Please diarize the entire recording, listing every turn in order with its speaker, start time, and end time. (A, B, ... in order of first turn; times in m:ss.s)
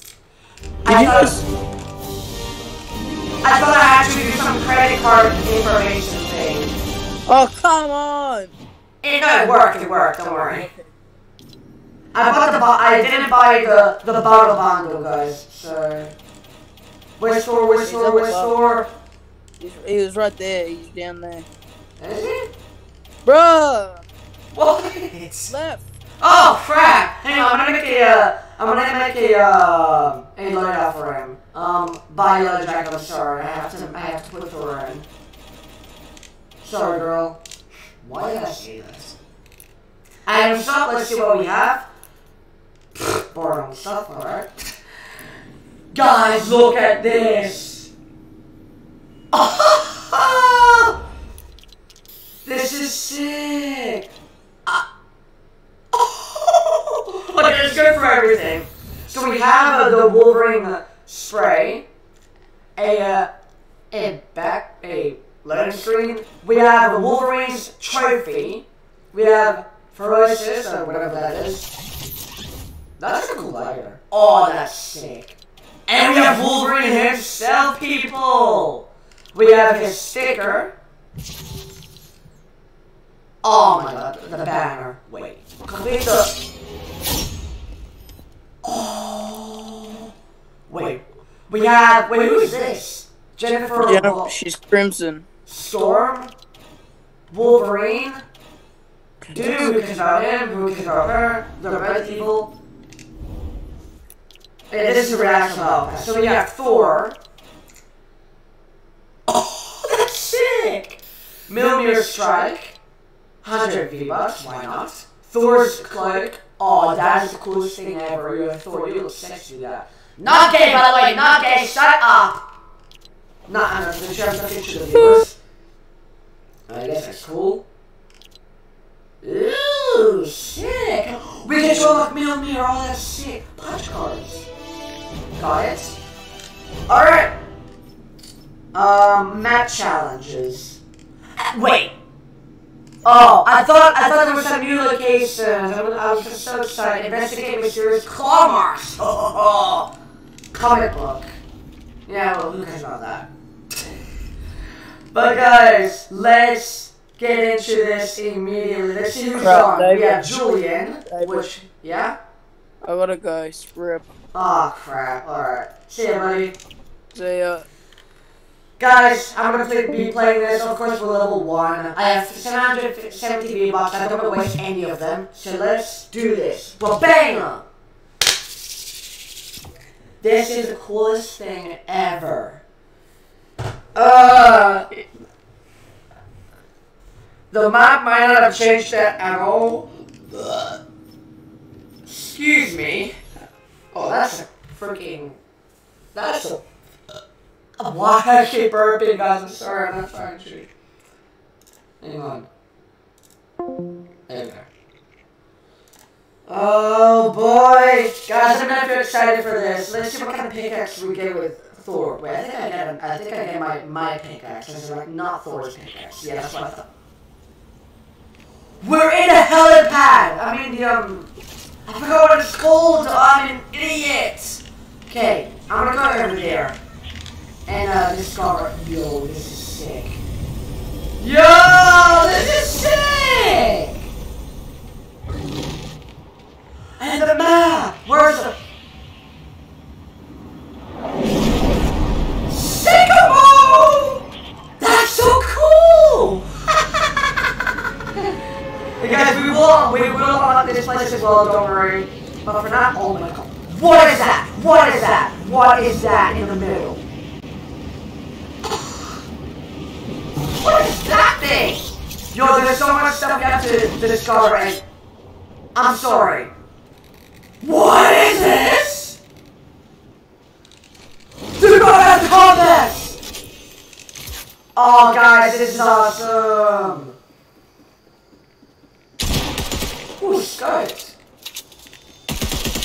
0:00.8-0:01.4 A
0:00.9-0:01.3 B
0:03.4-0:06.7 A
0:07.3-0:08.5 B
0:09.0-0:10.7 A
0:12.1-0:16.1 A
0:17.2-0:18.9 A
0:17.8-0:18.5 B
0:19.6-0:21.5 B
0:22.0-0:22.5 A
0:23.2-0:24.0 B
0:24.5-0:25.5 A
0:25.5-0:25.8 B
0:26.2-0:35.0 A
0:36.6-0:37.4 A
0:38.0-0:39.2 A
0:40.2-0:41.9 A
0:42.9-0:44.7 A
0:45.9-0:47.9 A
0:49.3-0:51.0 A
0:52.4-0:54.1 A
0:55.9-1:01.9 A
1:02.8-1:03.3 A
1:03.9-1:11.7 A
1:13.0-1:20.7 A
1:23.4-1:26.3 A
1:28.6-1:30.1 A
1:30.7-1:34.3 A
1:33.8-1:35.2 B
1:35.4-1:36.3 A
1:37.3-1:38.2 A
1:39.3-1:42.5 A
1:44.7-1:47.2 A
1:49.3-1:52.8 A
1:53.4-2:02.4 A
2:03.5-2:05.4 A
2:06.7-2:07.6 A
2:09.2-2:14.5 A
2:15.4-2:16.0 A
2:16.9-2:17.3 A
2:18.7-2:20.8 A
2:21.4-2:22.0 A
2:23.0-2:29.9 A
2:30.5-2:31.3 A
2:32.1-2:33.3 A
2:35.1-2:42.2 A
2:39.4-2:40.3 B
2:42.8-2:44.1 B
2:44.3-2:46.5 A
2:47.1-2:47.7 B
2:48.8-2:57.7 A
3:00.2-3:02.6 A
3:03.9-3:05.1 A
3:07.5-3:10.8 A
3:12.0-3:13.2 A
3:13.9-3:15.4 A
3:16.1-3:16.6 A
3:17.8-3:20.7 A
3:22.0-3:22.5 A
3:24.3-3:24.7 A
3:26.5-3:36.9 A
3:38.8-3:41.3 A
3:41.8-3:46.8 A
3:47.6-3:50.2 A
3:51.2-3:54.1 A
3:57.0-3:58.6 A
4:02.5-4:04.2 A
4:04.8-4:06.9 A
4:09.0-4:17.0 A
4:18.7-4:19.0 A
4:20.6-4:24.8 A
4:25.7-4:26.5 A
4:27.6-4:29.2 A
4:31.6-4:33.2 A
4:34.8-4:37.2 A
4:40.2-4:41.2 A